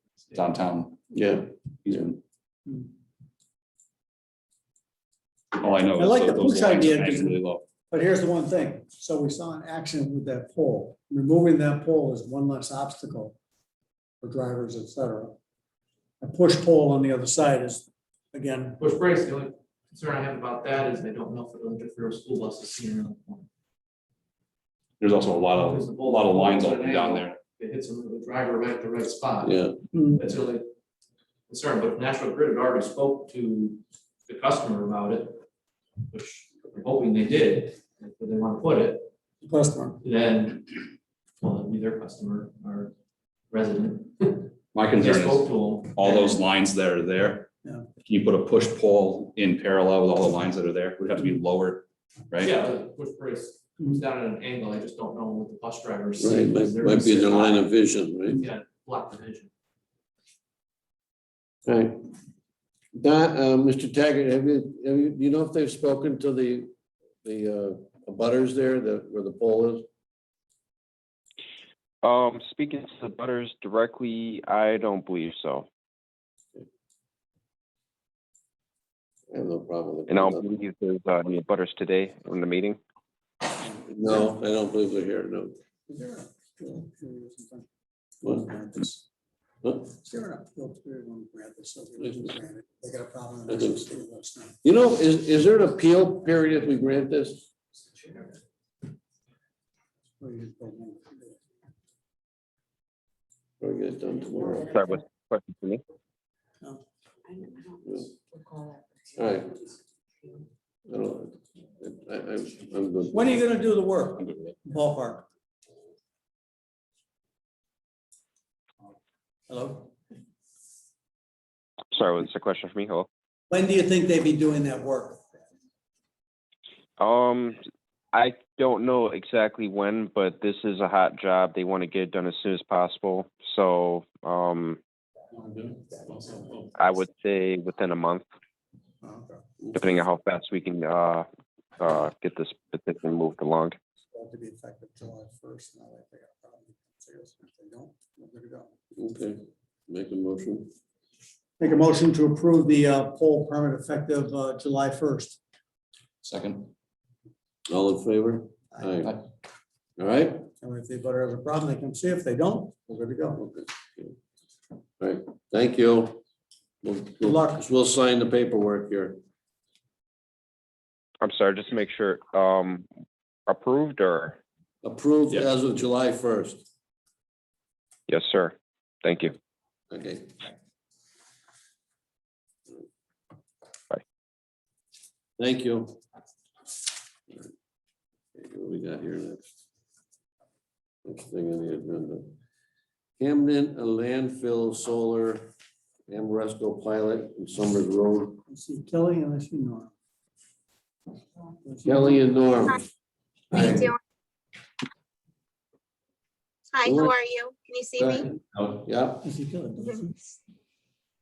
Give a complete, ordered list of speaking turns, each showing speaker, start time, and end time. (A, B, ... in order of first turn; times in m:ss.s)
0:00.3-0:01.1 A
0:01.1-0:02.0 B
0:01.8-0:02.2 A
0:05.6-0:07.7 A
0:06.0-0:13.4 C
0:14.2-0:15.4 C
0:16.2-0:18.8 C
0:18.8-0:23.5 D
0:25.0-0:27.4 A
0:25.5-0:30.6 D
0:29.4-0:29.8 B
0:29.9-0:30.2 C
0:31.5-0:35.4 D
0:36.1-0:39.1 D
0:39.4-0:40.0 C
0:40.0-0:40.9 D
0:41.4-0:42.9 D
0:43.5-0:46.4 D
0:44.7-0:52.6 A
0:52.4-0:57.7 D
0:56.2-0:58.4 B
0:58.3-0:59.5 D
1:01.7-1:02.0 B
1:03.0-1:06.7 B
1:07.2-1:09.9 B
1:12.0-1:15.7 E
1:19.3-1:20.4 B
1:20.1-1:22.8 E
1:23.8-1:25.6 B
1:25.9-1:27.7 C
1:28.2-1:29.0 C
1:29.6-1:29.9 B
1:29.9-1:34.6 C
1:32.0-1:32.3 B
1:33.5-1:33.8 B
1:34.6-1:37.5 B
1:40.2-1:41.4 C
1:43.6-1:44.8 B
1:44.7-1:45.8 E
1:47.8-1:48.1 B
1:49.2-1:49.6 B
1:50.8-1:53.4 B
1:53.1-1:55.2 C
1:59.5-1:59.9 C
2:01.9-2:03.1 E
2:03.5-2:05.4 C
2:07.0-2:07.6 E
2:08.1-2:14.8 E
2:16.8-2:18.2 E
2:19.0-2:19.4 C
2:19.7-2:21.2 E
2:21.8-2:23.8 E
2:24.1-2:28.7 C
2:29.0-2:30.7 B
2:31.6-2:35.4 C
2:36.2-2:36.7 A
2:37.7-2:39.2 B
2:38.8-2:39.0 C
2:40.0-2:40.5 B
2:40.6-2:43.4 C
2:43.4-2:44.1 B
2:45.0-2:46.2 B
2:46.8-2:49.2 B
2:47.2-2:47.6 C
2:51.2-2:52.9 E
2:53.5-2:54.4 E
2:54.8-2:56.7 B
2:58.1-2:59.3 E
2:59.9-3:00.4 B
3:05.4-3:06.0 B
3:08.4-3:09.5 B
3:11.0-3:12.4 B
3:13.2-3:15.5 B
3:16.1-3:18.4 B
3:18.5-3:19.9 C
3:21.6-3:22.2 C
3:21.8-3:22.8 B
3:23.5-3:23.9 B
3:23.5-3:24.0 F
3:26.7-3:28.3 F
3:26.9-3:27.1 B
3:28.0-3:29.2 B
3:29.2-3:30.2 C